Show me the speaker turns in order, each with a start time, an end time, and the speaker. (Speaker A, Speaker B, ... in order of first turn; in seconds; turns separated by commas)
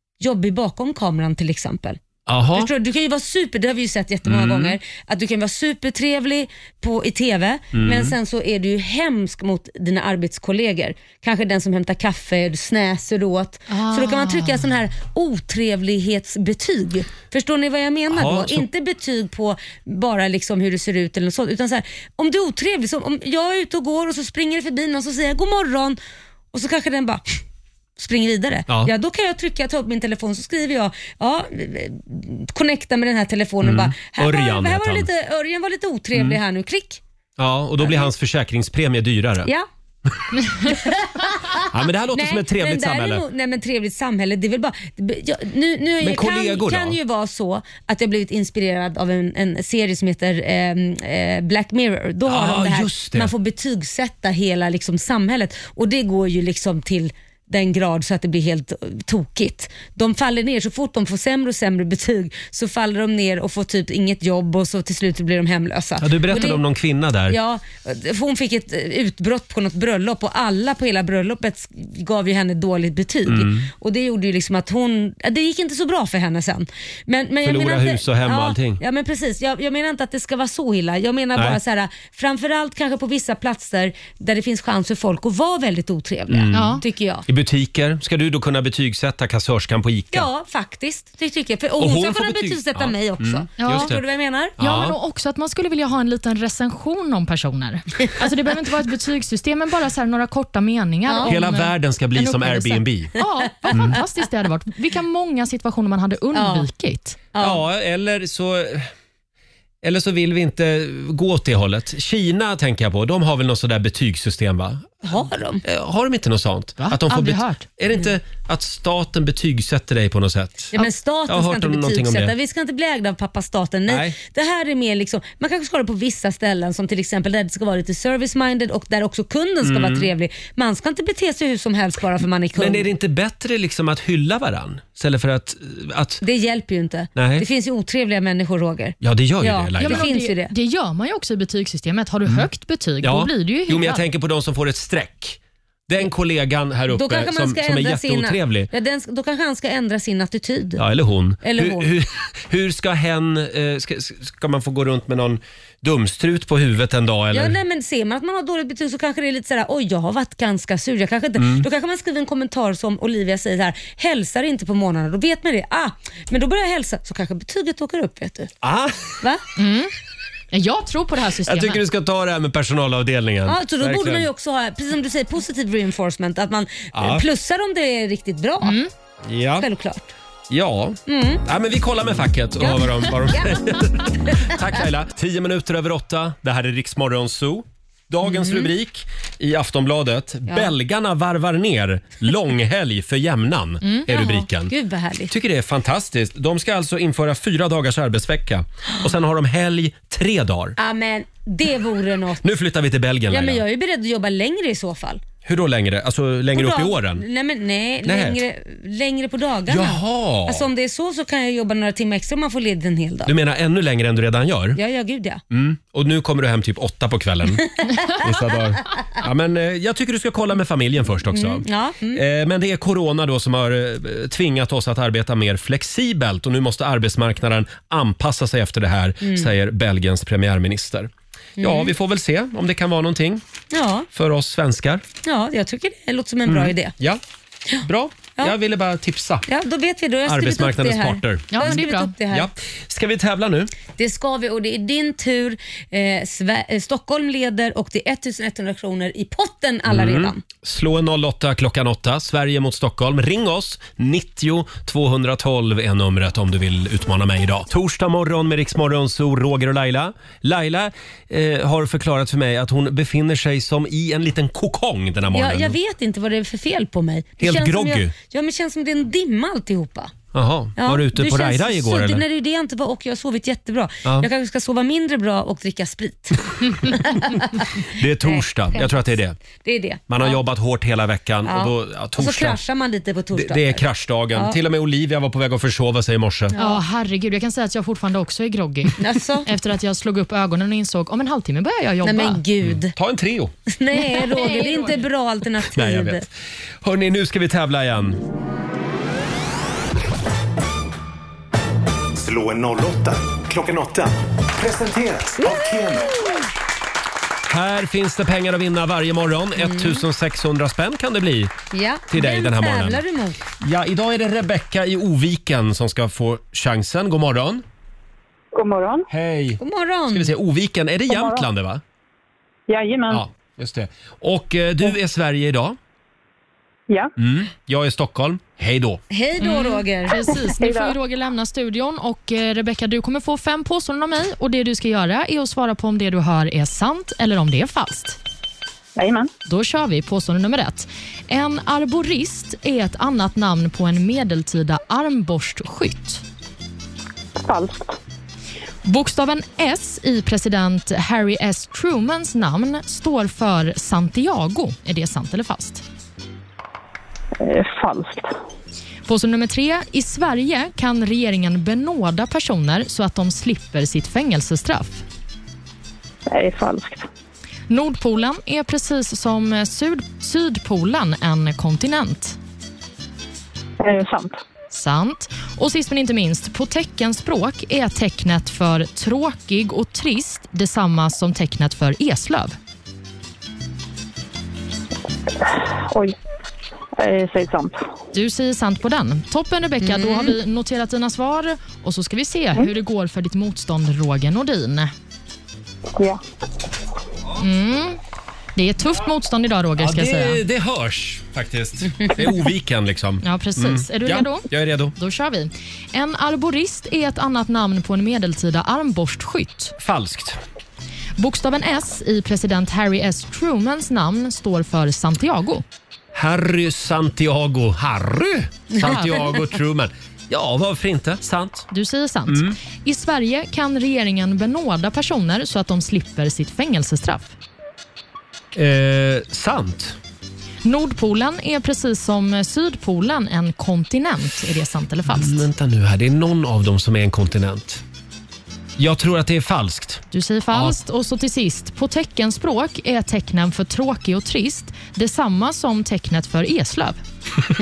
Speaker A: 0.2-2.0, Speaker B: 2.3-2.7, Speaker A: 2.5-26.0, Speaker B: 4.2-4.8, Speaker B: 7.7-8.1, Speaker C: 13.7-14.6, Speaker B: 18.1-18.7, Speaker A: 26.5-27.3, Speaker A: 28.0-37.0, Speaker B: 33.6-35.1, Speaker B: 37.4-39.5, Speaker A: 37.8-38.1, Speaker A: 40.6-66.6, Speaker B: 41.6-43.2, Speaker B: 46.0-47.0, Speaker B: 52.2-53.3, Speaker B: 66.0-67.4, Speaker A: 67.3-87.2, Speaker B: 73.3-73.7, Speaker B: 77.4-78.8, Speaker B: 86.3-90.3, Speaker C: 86.5-86.8, Speaker A: 90.1-94.6, Speaker B: 91.8-94.0, Speaker C: 93.6-93.9, Speaker B: 94.6-95.0, Speaker C: 94.6-107.2, Speaker A: 101.1-101.3, Speaker B: 101.3-103.1, Speaker A: 106.3-106.7, Speaker A: 107.3-107.6, Speaker B: 107.4-108.9, Speaker B: 109.8-115.1, Speaker A: 115.0-115.6, Speaker B: 115.6-120.8, Speaker C: 116.8-117.7, Speaker A: 120.7-132.9, Speaker B: 121.3-122.3, Speaker B: 123.9-124.2, Speaker B: 129.6-130.1, Speaker B: 132.6-136.2, Speaker A: 136.2-140.5, Speaker B: 137.2-137.5, Speaker B: 139.0-140.1, Speaker C: 139.8-144.0, Speaker B: 143.0-148.7, Speaker A: 146.9-150.8, Speaker B: 150.8-157.6, Speaker A: 151.4-151.9, Speaker A: 157.3-168.5, Speaker B: 161.4-161.7, Speaker B: 168.6-169.2, Speaker C: 169.6-169.9, Speaker C: 170.5-171.8, Speaker B: 171.5-174.3, Speaker A: 173.4-178.8, Speaker B: 176.9-177.3, Speaker C: 178.6-178.9, Speaker B: 179.3-179.7, Speaker A: 179.6-180.1, Speaker B: 180.5-194.7, Speaker A: 181.1-181.4, Speaker A: 182.6-184.8, Speaker A: 188.2-188.7, Speaker A: 194.1-195.3, Speaker B: 195.3-200.8, Speaker A: 200.8-202.4, Speaker B: 202.4-203.6, Speaker A: 203.3-205.2, Speaker B: 205.4-207.2, Speaker A: 206.5-213.3, Speaker B: 208.0-208.4, Speaker B: 209.7-210.7, Speaker B: 213.3-214.8, Speaker A: 214.8-215.4, Speaker B: 215.5-233.4, Speaker A: 221.3-222.2, Speaker A: 229.2-229.5, Speaker A: 231.6-231.9, Speaker A: 233.7-234.1, Speaker B: 234.1-235.0, Speaker A: 235.2-236.9, Speaker B: 236.5-237.2, Speaker B: 237.8-239.5, Speaker A: 239.5-242.5, Speaker B: 240.3-243.7, Speaker C: 241.5-242.1, Speaker A: 243.9-250.4, Speaker B: 249.9-265.8, Speaker A: 265.3-270.1, Speaker B: 267.4-268.1, Speaker B: 270.3-272.2, Speaker A: 270.8-278.9, Speaker B: 277.8-279.4, Speaker A: 279.6-280.4, Speaker B: 280.1-282.6, Speaker A: 281.4-284.6, Speaker B: 283.3-286.5, Speaker A: 286.5-286.8, Speaker C: 286.6-292.4, Speaker A: 289.0-289.5, Speaker A: 292.0-292.9, Speaker B: 292.6-293.5, Speaker A: 293.7-296.2, Speaker C: 293.9-295.0, Speaker B: 295.7-296.3, Speaker B: 296.8-298.2, Speaker D: 302.2-306.3, Speaker A: 305.4-305.7, Speaker B: 307.5-311.5, Speaker A: 309.6-310.0, Speaker A: 311.7-313.4, Speaker B: 312.1-313.0, Speaker B: 313.6-317.6, Speaker E: 318.5-319.1, Speaker B: 319.1-321.8, Speaker A: 319.6-320.3, Speaker E: 321.1-321.5, Speaker E: 322.7-323.2, Speaker B: 323.1-325.8, Speaker B: 327.2-329.0, Speaker A: 329.1-330.2, Speaker C: 329.4-338.2, Speaker E: 330.6-330.9, Speaker E: 339.0-339.3, Speaker C: 339.5-346.2, Speaker E: 347.4-348.0, Speaker C: 348.9-355.8, Speaker E: 357.4-358.3, Speaker C: 359.1-365.0, Speaker E: 366.3-367.1, Speaker C: 367.7-372.4, Speaker E: 373.8-374.4, Speaker C: 374.7-382.6, Speaker E: 385.5-386.1, Speaker E: 387.0-387.8, Speaker C: 388.1-394.9, Speaker A: 389.8-390.4, Speaker C: 397.4-398.0, Speaker C: 398.6-400.4, Speaker B: 399.8-404.9, Speaker C: 403.2-409.8, Speaker B: 409.8-410.4, Speaker C: 411.2-415.6, Speaker B: 416.1-421.7, Speaker C: 418.8-419.4, Speaker C: 421.7-427.3, Speaker B: 422.3-422.6, Speaker B: 428.6-430.0, Speaker C: 430.6-435.5, Speaker B: 435.1-437.8, Speaker B: 438.8-440.8, Speaker C: 440.1-447.0